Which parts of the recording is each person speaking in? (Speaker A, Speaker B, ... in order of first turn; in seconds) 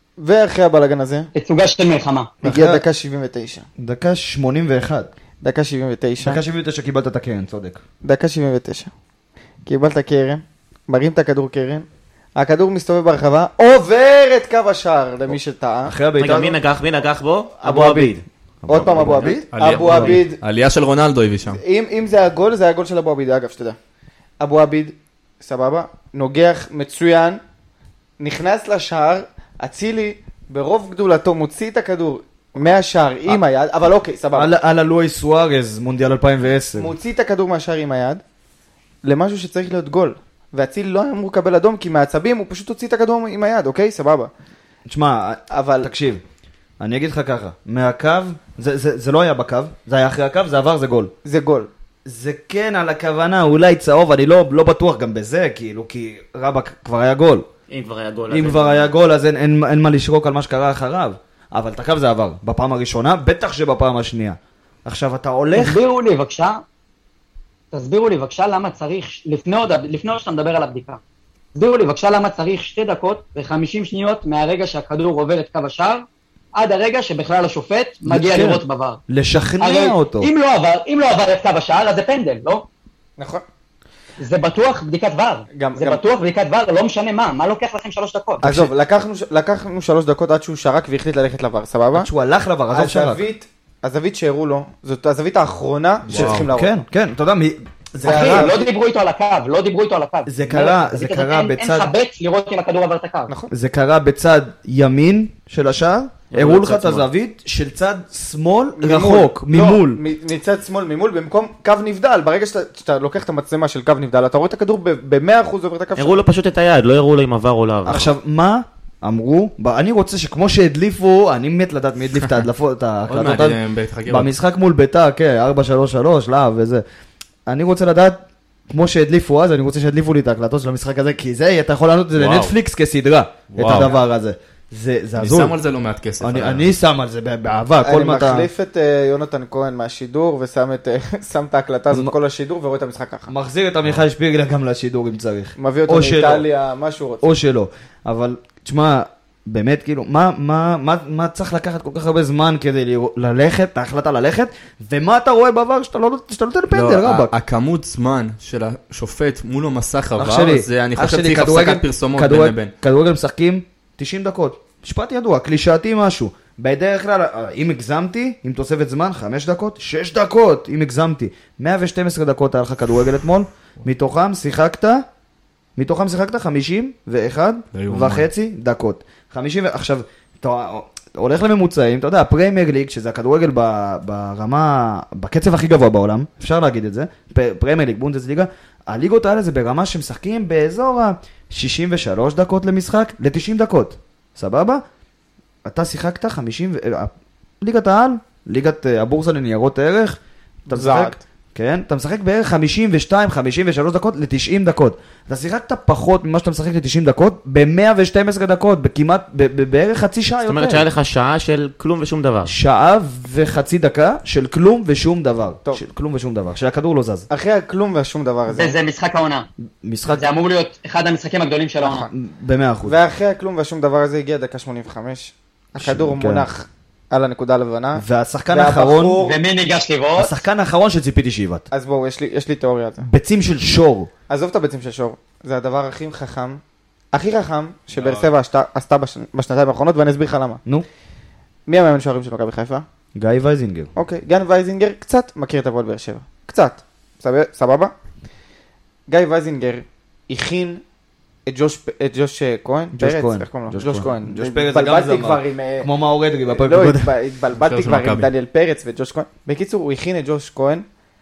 Speaker A: 0.2-1.3, 2.4-3.7, 5.4-6.4, 8.0-8.9, 9.7-16.0, 17.6-20.4, 21.5-23.8, 24.4-27.4, 28.2-34.5, 36.8-38.2, 39.0-44.3, 45.5-45.9, 51.2-51.7, 83.2-83.4, 85.6-86.0, 88.4-92.1, 92.7-96.8, 98.0-98.7, 108.8-116.2, 137.8-143.3, 145.6-147.3, 200.7-201.2, 217.3-218.8, 221.8-222.1, 222.9-229.4, 231.7-233.1, 234.3-236.6, 237.1-240.6, 241.7-242.8, 243.9-247.9, 249.1-250.8, 251.5-255.9, 256.5-260.9
Speaker B: 1.4-2.3, 65.5-66.6, 67.7-71.0, 71.5-79.0, 79.6-82.7, 84.2-88.4, 98.0-103.3, 218.5-219.5, 220.1-222.1, 229.2-230.4
Speaker C: 2.4-2.8, 3.8-5.1, 6.2-7.8, 15.8-16.6, 17.8-20.2, 34.3-36.9, 44.9-46.2, 46.8-51.1, 52.1-57.5, 58.3-65.8, 78.1-80.3, 88.4-88.7, 91.9-93.2, 96.1-98.5, 100.3-101.9, 103.5-110.0, 117.8-126.8, 127.5-135.6, 136.2-138.5, 143.3-146.5, 147.2-157.3, 160.2-175.1, 175.8-194.8, 195.7-210.9, 212.4-217.3, 219.8-220.2, 222.1-223.0, 225.8-226.5, 227.9-229.2, 230.2-231.7, 233.0-234.1, 243.2-243.9, 252.9-257.1
Speaker D: 16.2-18.1, 57.7-58.9, 106.3-107.1, 116.0-118.1, 210.5-212.5
Speaker E: 19.5-21.6, 96.1-96.5, 123.1-124.3, 132.2-132.5, 133.5-133.9, 135.2-136.7, 156.7-162.7, 177.7-178.3, 237.9-238.3, 257.6-258.3